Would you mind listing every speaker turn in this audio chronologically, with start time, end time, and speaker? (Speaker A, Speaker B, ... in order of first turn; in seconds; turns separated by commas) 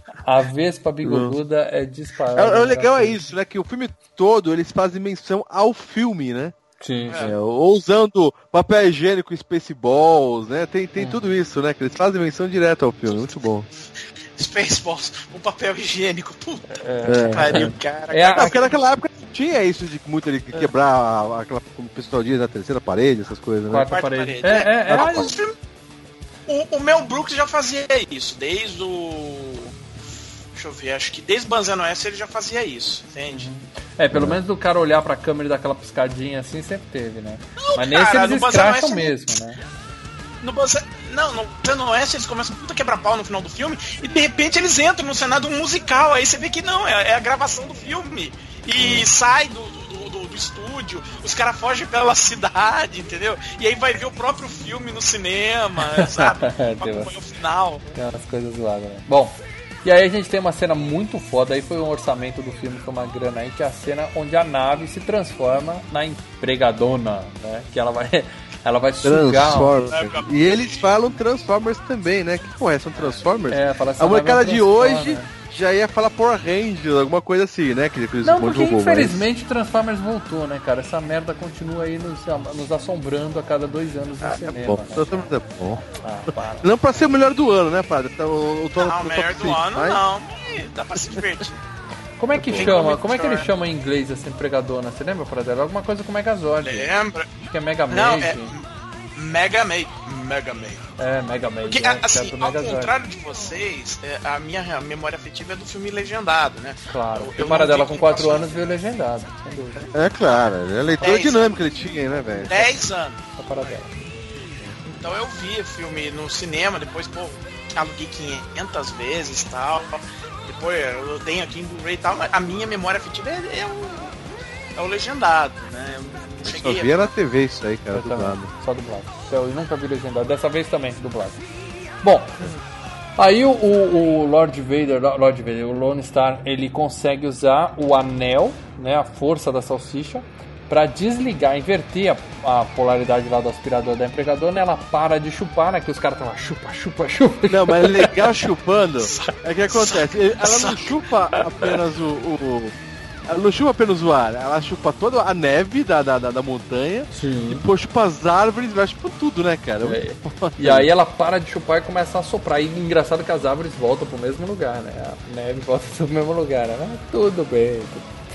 Speaker A: 0.2-3.2, Speaker B: 1.0-1.4, Speaker B: 2.3-6.5, Speaker A: 6.8-7.3, Speaker C: 7.1-7.3, Speaker B: 7.2-13.7, Speaker C: 14.4-16.8, Speaker A: 16.7-18.6, Speaker B: 17.1-17.7, Speaker C: 17.3-18.8, Speaker B: 18.3-23.9, Speaker A: 23.7-25.3, Speaker C: 23.9-25.6, Speaker B: 24.9-25.3, Speaker C: 26.5-29.8, Speaker C: 30.5-33.5, Speaker A: 33.3-39.6, Speaker C: 37.6-39.4, Speaker C: 40.4-57.8, Speaker B: 48.8-49.0, Speaker A: 56.0-57.1, Speaker A: 57.9-69.9, Speaker B: 69.0-79.2, Speaker C: 69.9-70.9, Speaker A: 73.5-75.3, Speaker A: 78.2-85.3, Speaker B: 84.2-85.8, Speaker A: 85.9-86.7, Speaker B: 86.6-90.0, Speaker C: 88.8-91.6, Speaker A: 92.2-96.9, Speaker B: 92.3-92.8, Speaker C: 92.5-93.5, Speaker C: 96.6-97.3, Speaker A: 97.4-98.6, Speaker C: 97.9-100.8, Speaker A: 101.0-102.9, Speaker C: 101.6-108.6, Speaker A: 106.9-109.9, Speaker B: 109.8-112.5, Speaker C: 111.0-111.6, Speaker A: 112.1-112.6, Speaker C: 112.5-113.2, Speaker A: 113.4-114.0, Speaker C: 114.8-127.1, Speaker B: 126.4-128.5, Speaker A: 127.9-131.4, Speaker A: 132.0-132.5, Speaker A: 133.2-148.2, Speaker B: 147.5-152.7, Speaker C: 149.0-151.1, Speaker B: 153.3-160.9, Speaker A: 157.1-157.7, Speaker A: 159.8-168.1